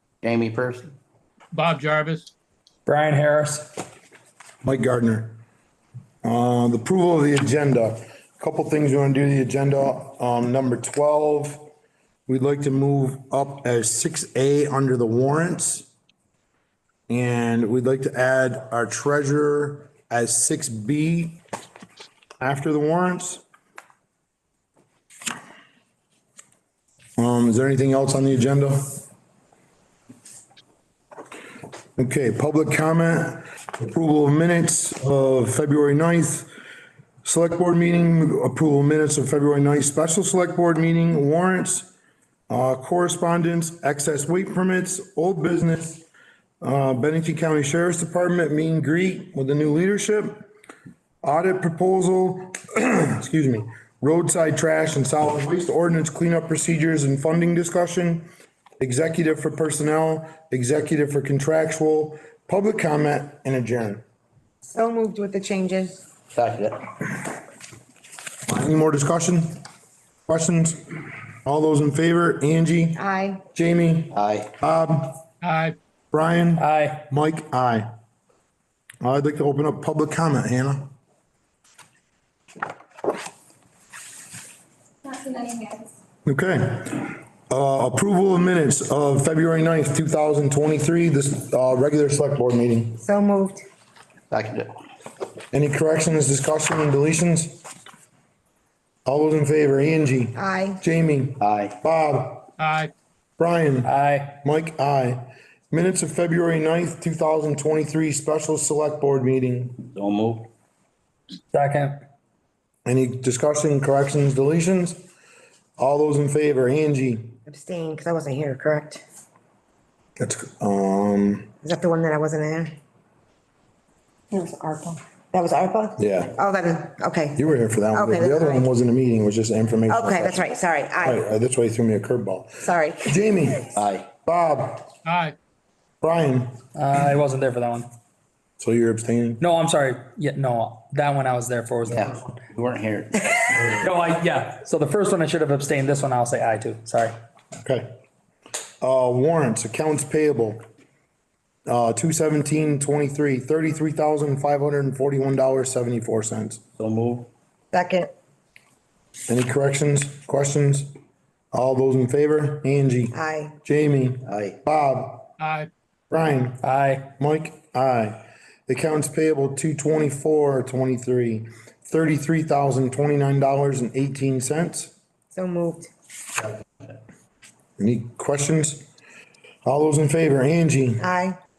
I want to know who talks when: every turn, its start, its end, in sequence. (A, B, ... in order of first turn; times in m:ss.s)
0:00.2-0:00.9 A
0:01.5-0:02.3 B
0:02.8-0:03.8 C
0:04.6-0:05.4 D
0:06.2-0:11.7 D
0:12.3-0:15.9 D
0:17.1-0:21.4 D
0:22.4-0:23.4 D
0:27.2-0:29.0 D
0:32.0-0:36.5 D
0:37.2-0:41.9 D
0:42.5-0:46.1 D
0:46.6-0:50.5 D
0:51.2-0:58.3 D
0:58.8-1:04.0 D
1:04.6-1:06.0 E
1:06.3-1:06.9 A
1:08.5-1:09.5 D
1:10.3-1:10.8 D
1:11.4-1:13.0 D
1:13.0-1:13.4 E
1:13.5-1:15.2 D
1:14.1-1:14.5 A
1:15.4-1:15.8 B
1:16.1-1:17.9 D
1:16.6-1:17.0 C
1:19.0-1:20.9 D
1:26.2-1:33.0 D
1:33.0-1:33.6 E
1:34.3-1:34.7 A
1:35.5-1:37.6 D
1:39.0-1:42.5 D
1:40.4-1:40.8 E
1:41.4-1:41.8 A
1:42.6-1:42.9 B
1:43.4-1:49.8 D
1:43.8-1:44.4 C
1:49.9-1:50.5 A
1:51.5-1:52.0 C
1:52.8-1:55.0 D
1:55.8-1:57.4 D
1:57.5-1:59.0 E
2:00.2-2:01.5 D
2:01.6-2:02.7 E
2:04.3-2:08.7 E
2:06.0-2:06.3 D
2:07.4-2:10.4 D
2:09.9-2:11.2 E
2:11.0-2:14.9 D
2:12.6-2:13.1 E
2:13.7-2:14.1 A
2:15.0-2:15.3 B
2:16.0-2:16.5 D
2:16.7-2:17.9 C
2:18.6-2:19.4 D
2:19.4-2:22.4 C
2:21.9-2:23.8 A
2:23.7-2:27.2 C
2:27.6-2:27.9 D
2:28.8-2:30.6 D
2:31.7-2:36.6 D
2:36.8-2:37.3 A
2:37.7-2:38.1 E
2:39.3-2:40.9 D
2:41.5-2:45.3 D
2:43.1-2:43.6 E
2:44.2-2:44.6 A
2:45.4-2:45.7 B
2:46.1-2:46.6 D
2:46.6-2:47.1 C
2:47.2-2:54.9 D
2:55.3-2:55.9 E
2:57.8-2:58.8 D
2:59.6-3:01.1 D
3:01.0-3:01.4 E